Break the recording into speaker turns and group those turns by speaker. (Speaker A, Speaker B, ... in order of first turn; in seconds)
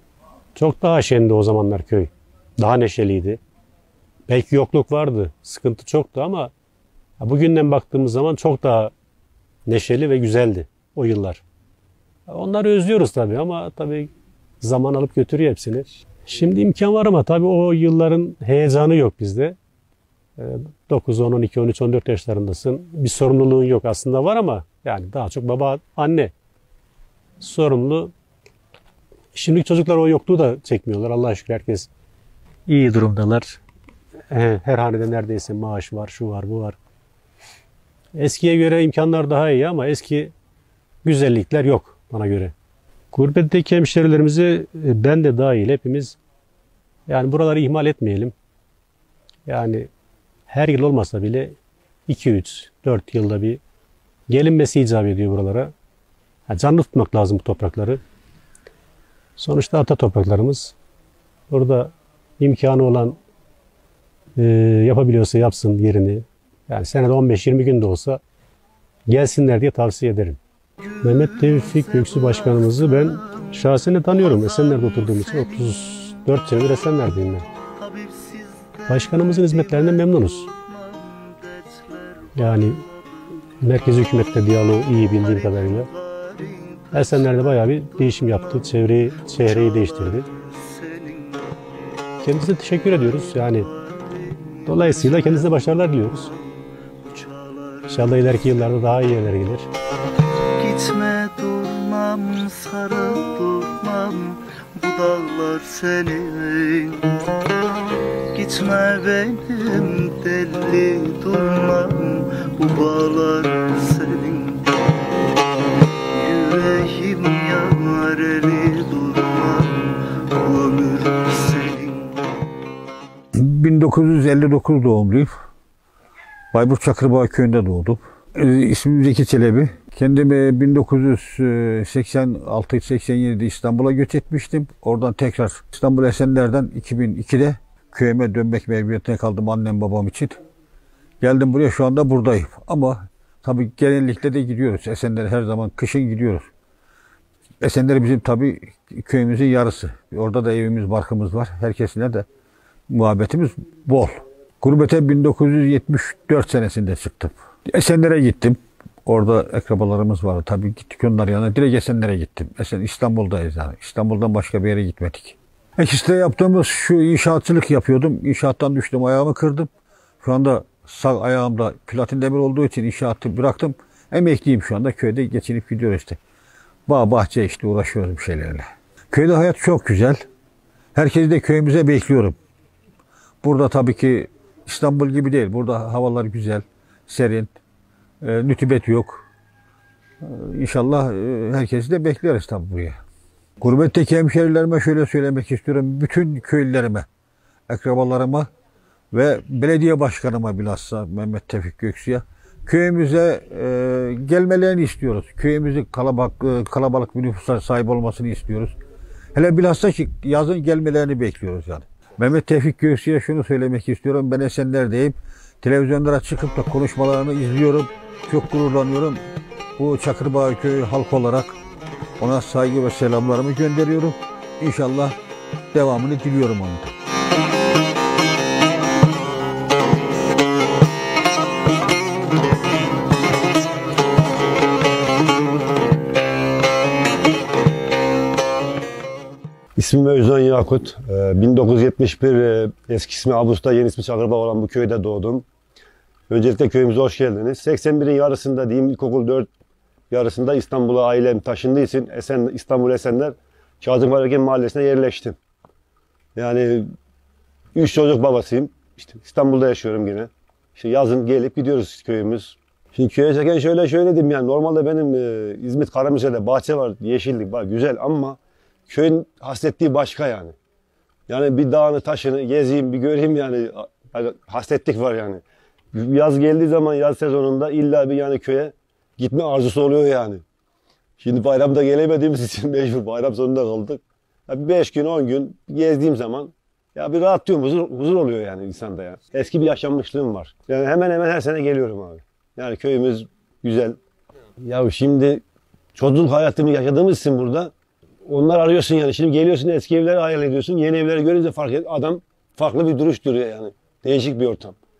Speaker A: 0.5-3.4, 4.3-6.5, 7.2-8.9, 9.7-11.4, 12.3-19.6, 20.4-26.3, 27.4-28.1, 29.3-31.9, 32.7-33.6, 34.3-36.8, 38.1-40.3, 41.0-42.5, 43.1-46.2, 47.1-48.3, 49.5-49.9, 50.5-53.6, 54.3-55.7, 56.5-58.0, 59.4-60.7, 61.5-63.2, 64.3-68.2, 69.1-70.4, 71.0-77.5, 78.9-80.5, 82.3-82.8, 83.6-85.9, 86.9-90.3, 92.2-93.7, 94.7-96.3, 97.9-99.7
Speaker B: 70.9-73.5, 74.2-75.6, 77.8-82.7, 85.5-87.2, 88.0-88.7, 89.4-91.6, 93.6-98.0, 100.6-107.1, 108.3-114.7, 116.1-122.1
Speaker C: 123.3-125.3, 126.5-140.4, 141.2-146.5, 147.6-152.2, 152.9-169.7, 170.2-176.2, 176.9-180.2, 180.9-182.4, 183.4-187.5, 188.2-189.2, 190.2-193.0, 193.6-197.1, 197.7-198.5, 199.1-208.7, 209.3-219.2, 219.8-221.6, 222.2-225.1, 225.7-226.9
Speaker D: 239.8-245.4, 246.3-249.5, 250.1-255.4, 256.4-256.9, 257.7-270.5, 271.3-275.4, 275.9-280.4, 281.2-294.0, 294.6-295.4, 295.9-297.7, 298.2-304.8